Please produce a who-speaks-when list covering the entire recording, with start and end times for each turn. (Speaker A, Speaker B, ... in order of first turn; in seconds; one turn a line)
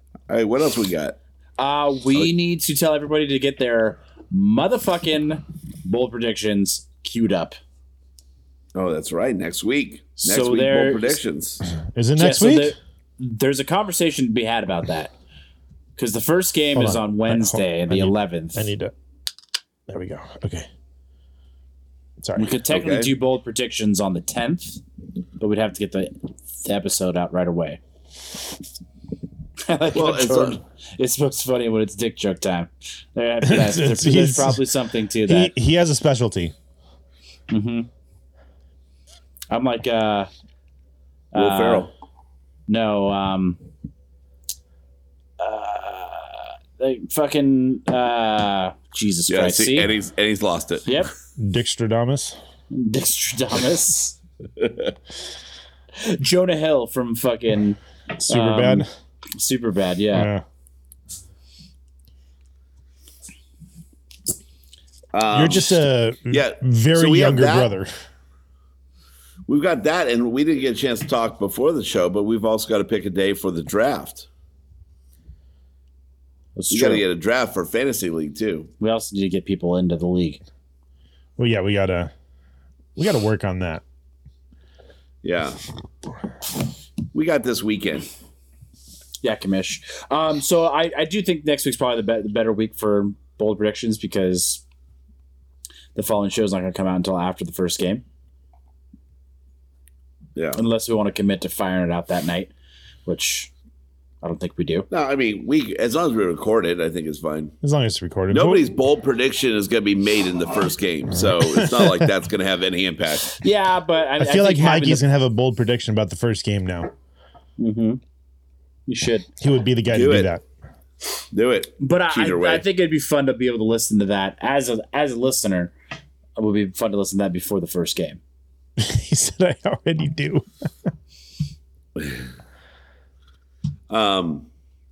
Speaker A: 0.3-1.2
Speaker B: 1.6-7.6
Speaker A: 8.7-11.6
Speaker B: 10.2-11.2
Speaker C: 11.9-12.8
Speaker B: 12.2-15.1
Speaker B: 16.0-18.7
Speaker C: 16.8-18.9
Speaker C: 19.9-20.7
Speaker C: 22.2-22.5
Speaker B: 22.4-24.8
Speaker A: 22.7-23.1
Speaker B: 25.4-27.8
Speaker B: 29.6-35.5
Speaker A: 29.9-30.6
Speaker C: 33.5-34.6
Speaker C: 35.3-36.5
Speaker B: 37.5-37.9
Speaker B: 39.5-40.3
Speaker B: 41.3-41.9
Speaker A: 41.4-41.9
Speaker B: 42.7-43.6
Speaker B: 45.4-49.9
Speaker A: 49.3-50.9
Speaker B: 50.9-51.1
Speaker C: 51.4-52.4
Speaker B: 52.7-54.2
Speaker A: 54.6-54.9
Speaker B: 56.0-60.3
Speaker C: 58.2-58.9
Speaker C: 60.1-60.4
Speaker A: 65.1-67.7
Speaker C: 65.3-67.9
Speaker A: 69.5-74.3
Speaker B: 76.6-77.0
Speaker A: 76.7-78.7
Speaker B: 78.8-80.4
Speaker C: 81.4-82.1
Speaker C: 83.0-83.8
Speaker A: 85.2-85.6
Speaker A: 87.1-88.1
Speaker B: 89.2-94.6
Speaker B: 96.0-98.0
Speaker B: 100.6-102.5
Speaker B: 103.1-103.5
Speaker B: 104.2-104.9
Speaker A: 104.9-107.6
Speaker C: 107.6-108.7
Speaker A: 108.3-113.4
Speaker C: 111.2-112.1
Speaker B: 113.4-115.0
Speaker C: 114.2-116.9
Speaker B: 117.6-118.0
Speaker B: 118.9-119.3
Speaker C: 119.4-120.4
Speaker A: 119.9-120.3
Speaker A: 121.3-122.7
Speaker B: 121.8-125.7
Speaker B: 126.4-128.2
Speaker C: 128.8-130.4
Speaker A: 133.9-134.5